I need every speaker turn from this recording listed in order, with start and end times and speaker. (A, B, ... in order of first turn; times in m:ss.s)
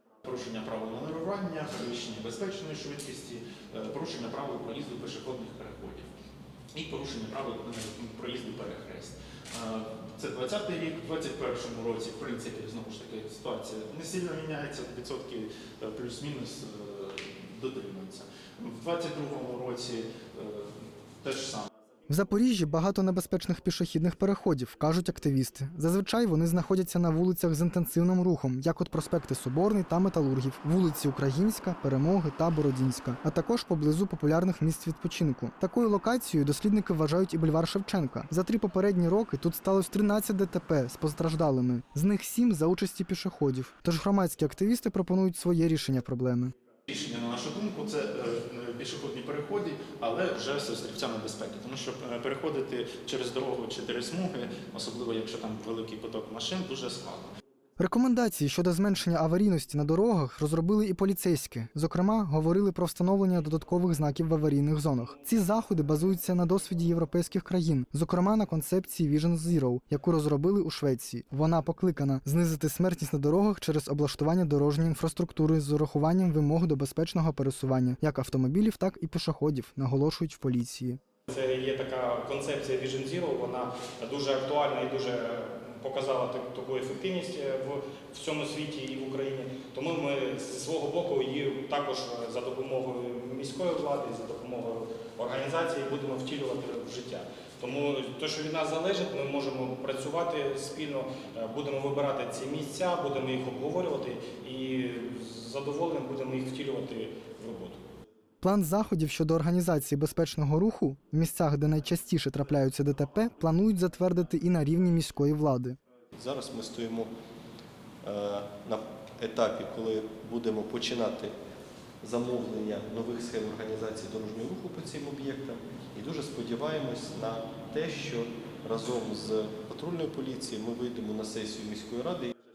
0:00.2-0:06.1 A
0:06.7-0:21.7 A
0:22.1-0:46.5 B
0:46.9-0:57.3 A
0:57.8-1:21.0 B
1:21.3-1:47.8 C
1:48.4-1:55.8 B
1:56.1-1:57.1 D
1:58.0-2:01.3 D
2:02.0-2:12.3 D